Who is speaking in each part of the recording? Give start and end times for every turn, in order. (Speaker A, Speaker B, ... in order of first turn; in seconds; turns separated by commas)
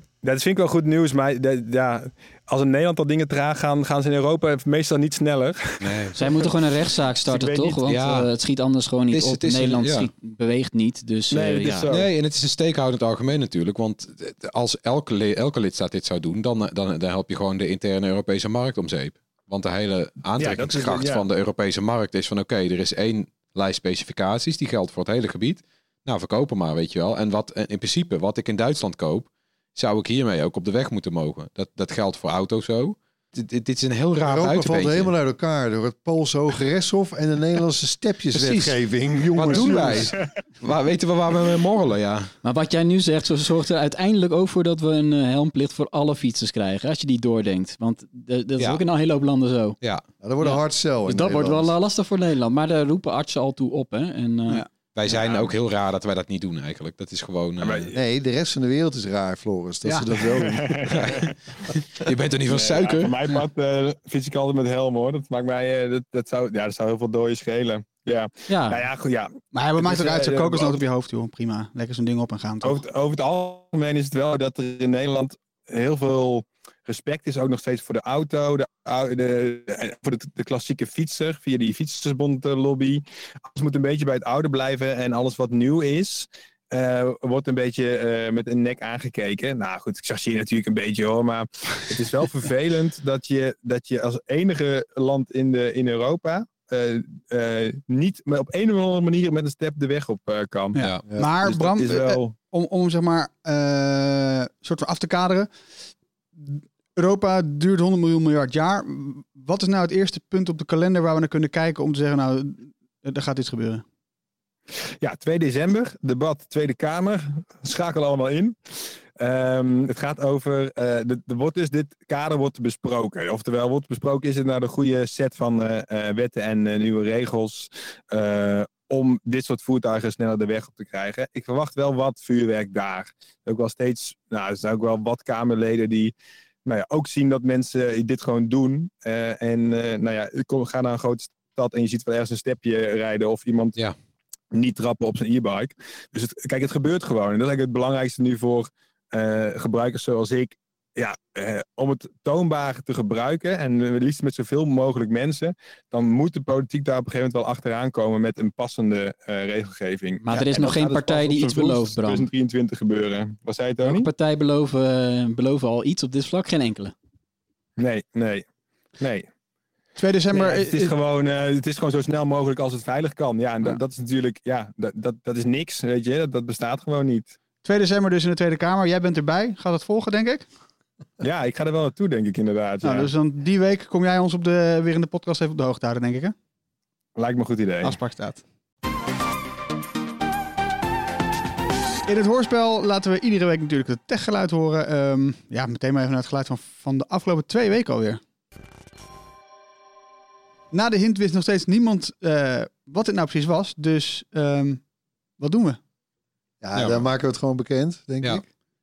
Speaker A: 0.2-6.5, Speaker B: 5.8-6.3, Speaker C: 6.1-11.9, Speaker A: 7.3-7.8, Speaker B: 7.9-8.3, Speaker B: 9.1-10.1, Speaker A: 11.3-12.1, Speaker B: 11.9-35.1, Speaker A: 20.4-21.2, Speaker D: 34.2-40.1, Speaker B: 38.3-42.3, Speaker A: 39.4-40.0, Speaker C: 42.4-49.8, Speaker B: 48.6-48.8, Speaker D: 50.2-51.7, Speaker C: 50.4-54.7, Speaker B: 54.9-57.9, Speaker A: 55.1-55.5, Speaker A: 57.6-57.9, Speaker D: 57.9-60.9, Speaker E: 59.8-60.1, Speaker A: 60.4-61.3, Speaker B: 60.9-63.1, Speaker A: 62.5-70.8, Speaker C: 68.5-68.8, Speaker E: 69.5-72.8, Speaker A: 72.6-100.8, Speaker E: 100.7-105.7, Speaker B: 100.8-101.0, Speaker D: 101.0-101.3, Speaker A: 101.4-102.3, Speaker E: 106.4-113.8, Speaker A: 115.0-118.5, Speaker A: 119.2-136.1, Speaker A: 136.6-143.8, Speaker A: 144.5-164.1, Speaker C: 160.2-162.3, Speaker C: 163.8-166.9, Speaker A: 167.8-168.4, Speaker A: 169.0-169.3, Speaker E: 170.0-170.9, Speaker A: 170.3-177.4, Speaker E: 177.6-180.5, Speaker A: 181.2-183.1, Speaker E: 182.8-186.3, Speaker A: 187.2-188.0, Speaker E: 187.8-188.4, Speaker E: 192.1-198.2, Speaker E: 200.7-204.8, Speaker E: 205.4-205.8, Speaker D: 206.6-208.4, Speaker B: 206.7-207.0